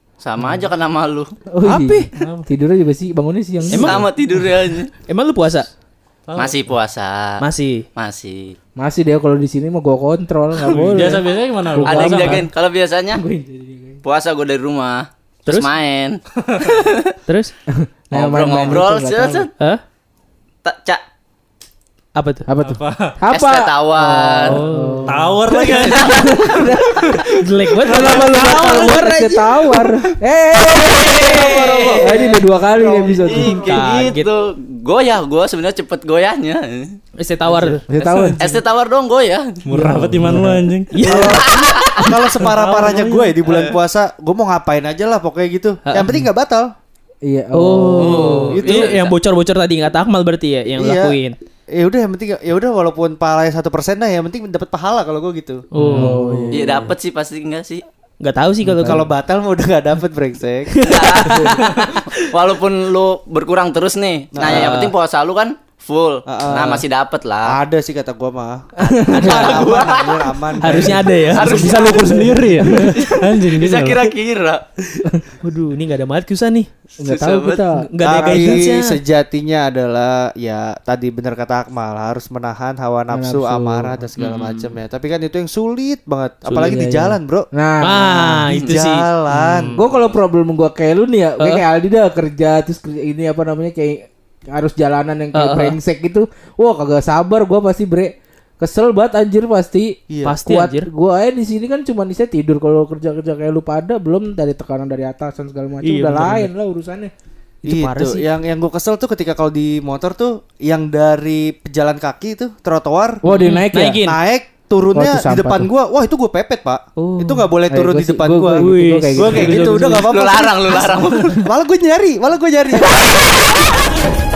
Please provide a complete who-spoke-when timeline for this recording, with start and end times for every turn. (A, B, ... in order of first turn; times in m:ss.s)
0:00.2-0:01.3 A
0:01.5-0:04.1 B
0:01.6-0:02.1 C
0:02.2-0:02.4 D
0:03.7-0:04.1 C
0:03.8-0:04.9 A
0:05.0-0:05.7 C
0:06.3-0:06.7 D
0:06.4-0:07.4 A
0:07.4-0:07.8 C
0:08.0-0:08.5 A
0:08.8-0:12.5 B
0:10.7-0:12.5 D
0:11.8-0:13.2 A
0:13.2-0:14.0 B
0:14.0-0:16.2 A
0:15.4-0:15.7 C
0:17.3-0:17.5 C
0:18.0-0:19.5 B
0:18.1-0:19.5 A
0:20.6-0:21.0 A
0:22.2-0:22.5 C
0:22.5-0:27.2 B
0:22.6-0:23.2 D
0:23.3-0:24.5 A
0:24.5-0:26.3 C
0:24.5-0:26.4 D
0:27.4-0:29.8 C
0:27.8-0:33.7 B
0:27.9-0:28.8 D
0:31.0-0:32.2 C
0:31.6-0:32.2 E
0:33.2-0:36.9 A
0:33.3-0:34.3 C
0:37.2-0:37.8 C
0:37.4-0:37.8 E
0:37.9-0:38.6 B
0:38.4-0:39.6 A
0:39.6-0:40.9 D
0:39.7-0:40.6 B
0:40.9-0:43.4 C
0:41.1-0:46.7 E
0:47.2-0:48.6 B
0:47.5-0:51.4 C
0:48.0-0:49.1 A
0:48.5-0:49.0 E
0:50.8-0:51.2 E
0:51.7-0:55.6 E
0:55.7-0:56.5 C
0:55.8-0:56.2 D
0:56.0-0:56.9 B
0:56.5-0:57.8 A
0:58.2-0:59.1 C
0:58.6-0:59.0 B
0:58.8-1:00.8 E
1:00.8-1:01.6 C
1:00.9-1:07.6 A
1:04.3-1:04.9 E
1:04.4-1:04.9 C
1:06.2-1:06.8 E
1:07.4-1:12.6 E
1:08.8-1:09.6 B
1:09.0-1:09.7 C
1:09.3-1:10.1 A
1:10.6-1:11.8 C
1:11.3-1:12.0 A
1:11.6-1:14.1 D
1:12.0-1:12.9 B
1:13.0-1:14.7 A
1:15.4-1:16.7 C
1:17.0-1:18.7 B
1:17.0-1:17.6 A
1:17.8-1:18.9 C
1:18.0-1:27.5 E
1:23.1-1:24.1 B
1:24.2-1:24.7 A
1:26.5-1:26.8 C
1:26.6-1:28.5 B
1:27.8-1:29.8 C
1:28.5-1:29.8 E
1:29.6-1:47.1 B
1:35.3-1:35.8 C
1:40.1-1:40.4 E
1:40.2-1:40.9 C
1:45.8-1:46.5 C
1:47.6-1:48.3 C
1:47.7-1:53.2 E
1:53.2-1:54.0 B
1:53.3-1:54.2 C
1:54.0-2:03.4 E
1:54.9-1:55.7 B
1:57.0-1:57.5 C
1:57.7-2:00.0 B
1:58.5-2:00.1 C
2:00.1-2:01.4 A